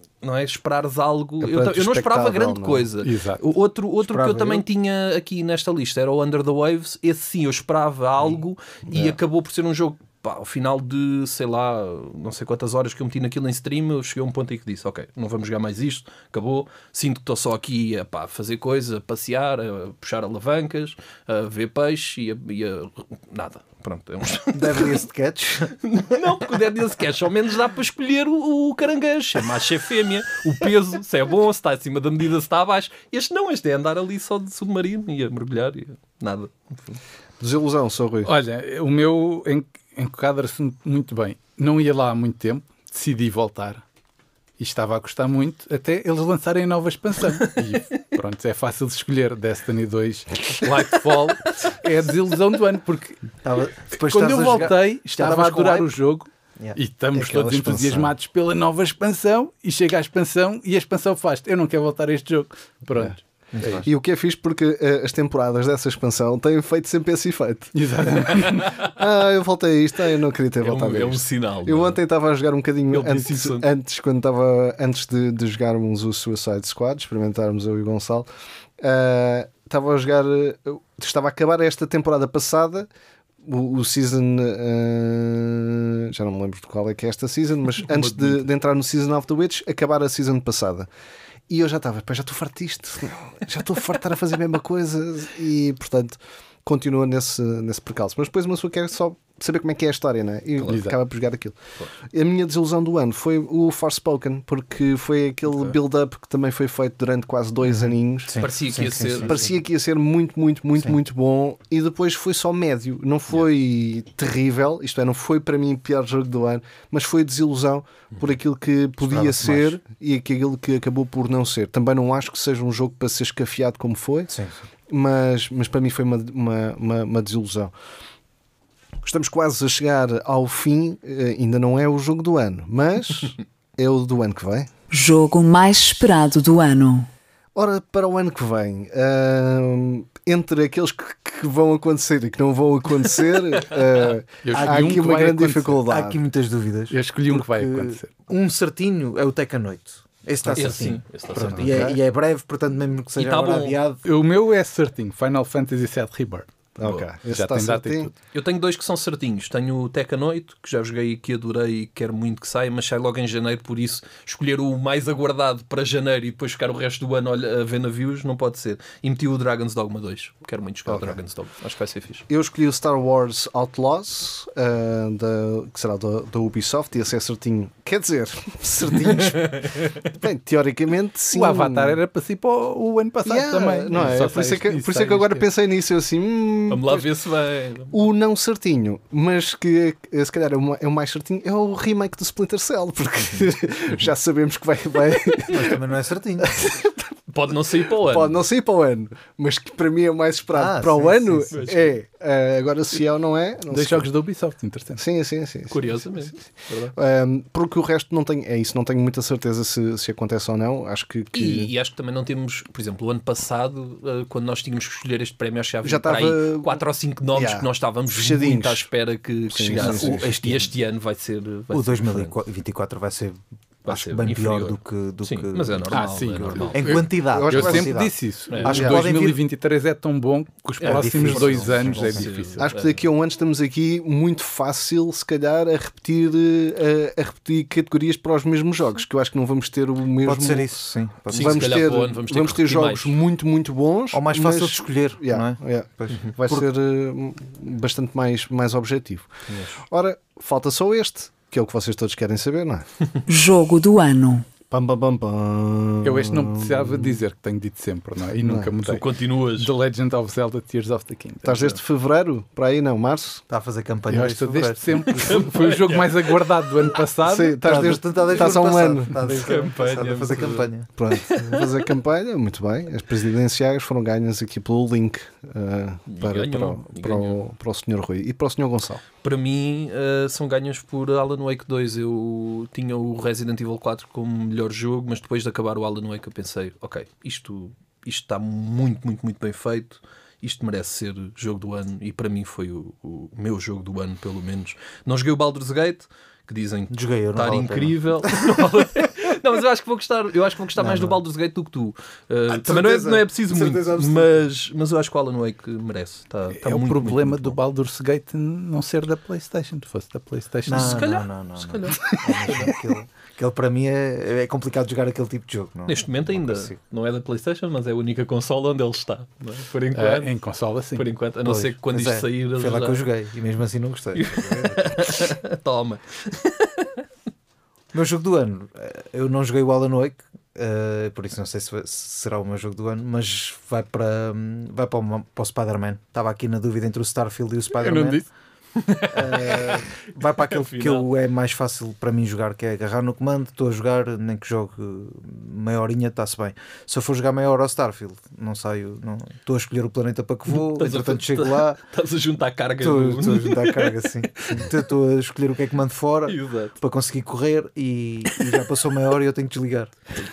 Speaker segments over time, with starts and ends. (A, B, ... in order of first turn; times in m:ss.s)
0:00.2-0:25.1 A
0:01.4-0:02.9 B
0:03.0-0:03.4 C
0:04.0-0:04.6 D
0:08.9-0:09.2 B
0:24.5-0:25.8 D
0:25.7-0:37.0 A
0:37.4-0:38.3 B
0:38.2-0:43.8 C
0:44.6-0:53.2 C
0:53.4-0:55.9 D
0:53.9-1:03.8 C
0:57.2-0:58.1 B
1:03.5-1:03.9 D
1:03.8-1:07.8 B
1:07.7-1:08.8 C
1:08.8-1:18.3 B
1:10.6-1:12.0 A
1:12.9-1:13.7 A
1:18.8-1:22.9 B
1:23.4-1:30.9 B
1:28.0-1:28.4 A
1:31.5-1:41.6 B
1:40.7-1:41.0 C
1:42.1-2:04.3 B
1:47.7-1:49.5 D
1:48.4-1:49.5 A
1:59.1-1:59.8 D
2:04.3-2:04.6 D
2:04.9-2:07.7 B
2:09.0-2:14.7 B
2:14.9-2:17.1 E
2:17.6-2:26.2 B
2:24.4-2:25.8 C
2:24.5-2:24.9 D
2:25.9-2:34.0 D
2:26.9-2:28.1 C
2:30.4-2:30.8 B
2:30.6-2:31.9 A
2:31.5-2:32.0 B
2:33.2-2:33.8 A
2:34.0-2:36.5 C
2:36.8-2:38.1 B
2:37.3-2:38.1 C
2:38.3-2:52.2 A
2:50.9-2:51.2 B
2:52.3-3:02.0 B
2:59.0-3:00.0 A
3:01.3-3:05.4 C
3:03.2-3:07.1 B
3:06.7-3:07.9 A
3:07.9-3:15.8 B
3:15.5-3:16.7 D
3:16.4-3:17.1 B
3:17.3-3:18.4 A
3:17.7-3:24.1 B
3:20.5-3:21.6 D
3:21.5-3:21.9 A
3:23.7-3:25.0 C
3:25.0-3:26.3 B
3:25.7-3:27.0 A
3:27.0-3:31.7 B
3:31.3-3:42.4 A
3:35.8-3:38.9 B
3:39.5-3:40.3 B
3:39.7-3:40.7 D
3:41.7-3:49.4 D
3:43.9-3:47.1 A
3:45.9-3:52.7 C
3:47.3-3:48.0 B
3:48.5-3:48.9 A
3:48.7-3:49.0 B
3:50.8-3:53.0 A
3:50.8-3:52.3 D
3:52.6-4:00.8 B
4:00.2-4:01.8 D
4:01.3-4:09.3 B
4:01.3-4:03.2 A
4:04.1-4:06.7 D
4:09.5-4:09.8 A
4:09.8-4:12.9 B
4:13.3-4:14.5 E
4:14.7-4:17.2 B
4:16.0-4:21.7 C
4:18.4-4:18.9 B
4:18.9-4:19.7 A
4:21.4-4:23.4 B
4:23.5-4:25.3 D
4:24.1-4:28.0 C
4:25.1-4:27.0 A
4:27.2-4:29.2 B
4:27.6-4:30.9 D
4:29.2-4:31.8 A
4:31.0-4:39.0 B
4:36.1-4:37.4 A
4:39.2-5:07.6 A
4:56.9-4:58.6 D
5:00.8-5:01.2 D
5:02.5-5:04.4 D
5:06.5-5:11.1 C
5:10.7-5:16.8 D
5:10.8-5:12.7 A
5:15.9-5:20.3 A
5:19.9-5:21.1 C
5:20.9-5:23.0 A
5:21.4-5:25.2 D
5:24.2-5:27.0 A
5:27.9-5:38.2 D
5:37.8-5:38.3 C
5:38.8-5:41.1 A
5:39.1-5:51.8 D
5:50.5-5:54.7 A
5:52.8-6:00.0 D
5:56.3-5:56.8 A